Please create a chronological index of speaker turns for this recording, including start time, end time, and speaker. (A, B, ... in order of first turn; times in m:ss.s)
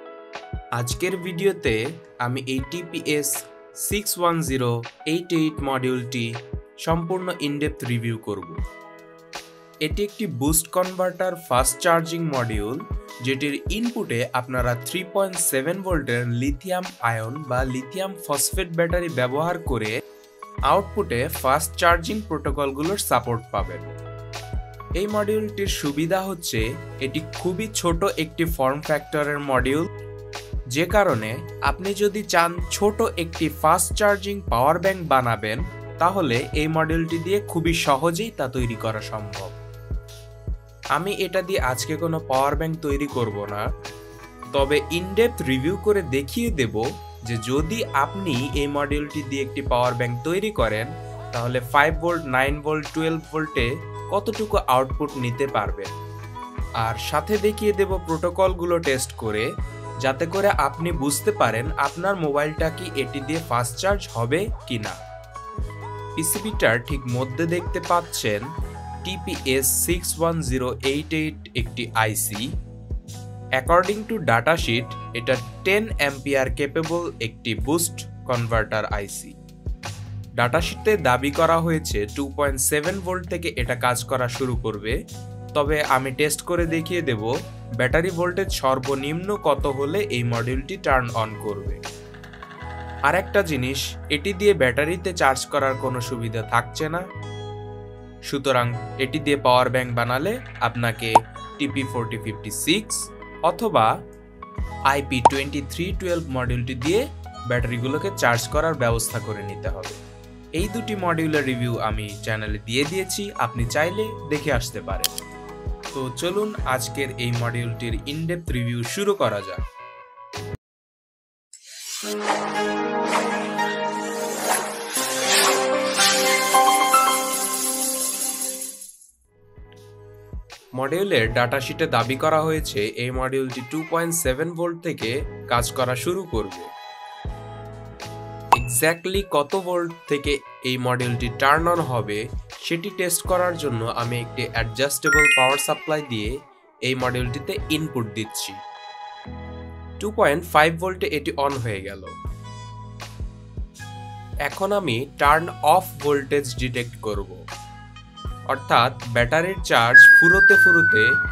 0:00.8-0:06.3 A
0:06.8-0:08.6 A
0:09.8-0:19.9 A
0:20.7-0:24.0 A
0:25.0-0:29.9 A
0:30.7-0:39.6 A
0:41.0-0:43.6 A
0:44.5-0:55.9 A
0:56.8-0:59.5 A
1:00.0-1:05.0 A
1:06.2-1:08.5 A
1:09.0-1:12.5 A
1:13.6-1:19.4 A
1:20.4-1:25.0 A
1:25.6-1:31.8 A
1:33.1-1:37.0 A
1:38.3-1:43.9 A
1:44.9-1:50.0 A
1:50.6-1:55.1 A
1:55.9-1:59.6 A
2:10.8-2:16.7 A
2:18.6-2:26.3 A
2:26.9-2:28.6 A
2:30.0-2:32.1 A
2:34.5-2:37.4 A
2:38.5-2:41.1 A